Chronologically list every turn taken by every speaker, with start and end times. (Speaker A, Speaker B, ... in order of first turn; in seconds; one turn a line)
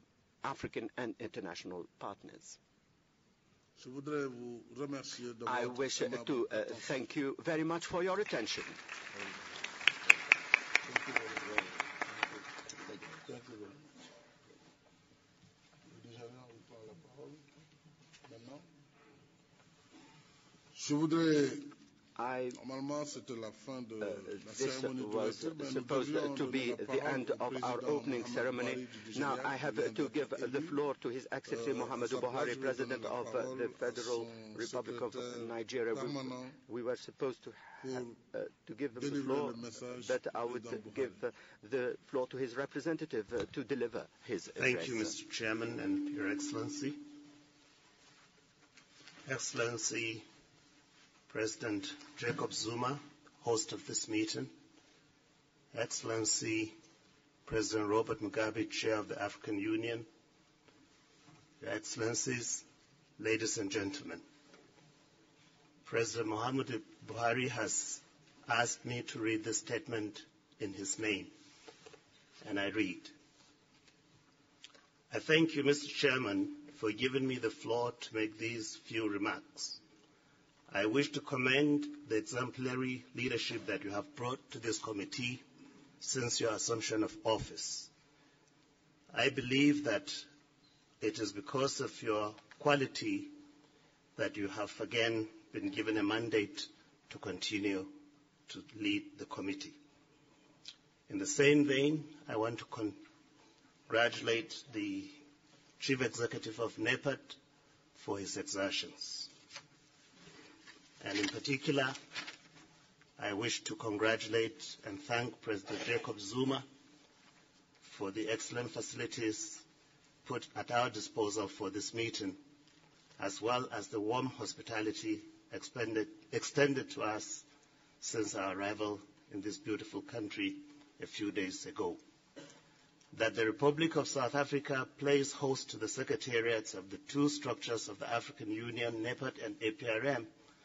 Speaker A: 0.4-2.6
Speaker B: 3.8-6.9
Speaker A: 5.5-8.8
Speaker B: 10.8-11.9
Speaker B: 13.2-13.9
Speaker B: 15.9-17.5
Speaker B: 18.2-18.6
Speaker B: 20.7-21.7
Speaker A: 22.2-22.6
Speaker B: 22.5-30.8
Speaker A: 24.0-45.1
Speaker B: 31.5-36.6
Speaker B: 37.8-38.2
Speaker B: 39.0-41.2
Speaker C: 44.6-47.0
Speaker C: 49.2-50.2
Speaker C: 51.3-54.5
Speaker C: 55.7-56.7
Speaker C: 57.4-60.1
Speaker C: 61.6-62.6
Speaker C: 63.2-64.2
Speaker C: 65.8-71.3
Speaker C: 72.4-73.1
Speaker C: 75.1-79.8
Speaker C: 80.7-85.4
Speaker C: 86.0-87.9
Speaker C: 89.1-90.2
Speaker C: 91.0-93.3
Speaker C: 94.2-97.9
Speaker C: 98.5-99.8
Speaker C: 101.1-103.0
Speaker C: 103.9-105.2
Speaker C: 105.8-107.4
Speaker C: 107.9-109.3
Speaker C: 111.0-112.0
Speaker C: 113.2-116.6
Speaker C: 117.8-119.6
Speaker C: 120.2-122.4
Speaker C: 123.2-127.4
Speaker C: 128.0-132.0
Speaker C: 133.1-140.3